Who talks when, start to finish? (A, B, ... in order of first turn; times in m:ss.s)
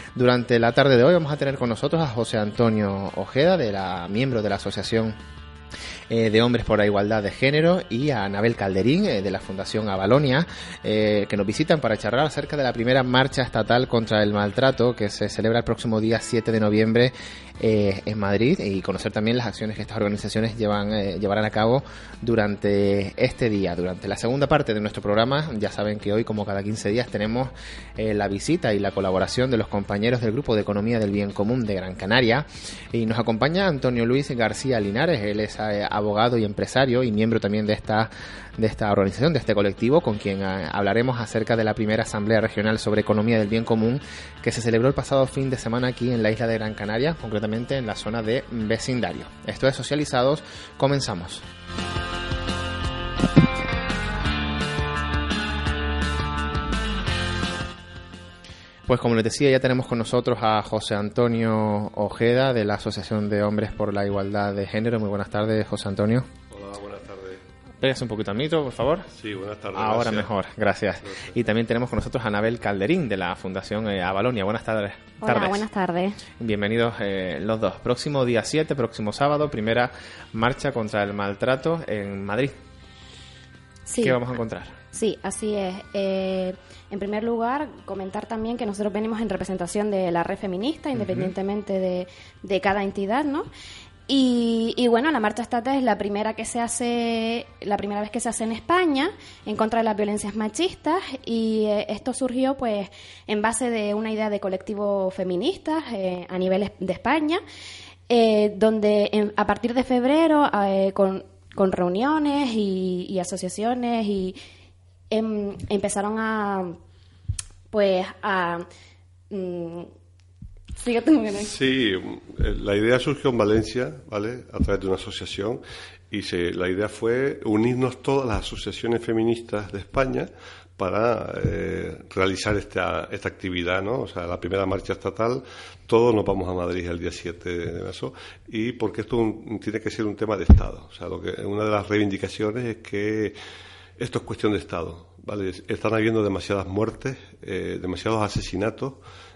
0:00.2-0:05.2 A
0:06.1-0:51.4 A
0:58.9-1:06.3 A
1:06.5-1:07.4 B
1:07.8-1:09.1 A
1:09.1-1:10.3 B
1:09.8-1:15.6 A
1:11.1-1:11.4 B
1:15.2-1:16.2 C
1:16.4-1:22.6 A
1:23.9-1:24.2 C
1:24.0-1:24.8 A
1:24.9-1:33.5 C
1:31.0-1:31.3 A
1:34.1-1:47.4 C
1:48.1-1:54.4 C
1:55.1-1:56.8 C
1:57.7-1:58.6 C
1:59.3-1:59.9 C
2:00.8-2:01.5 C
2:01.4-2:23.4 B
2:24.0-2:29.0 B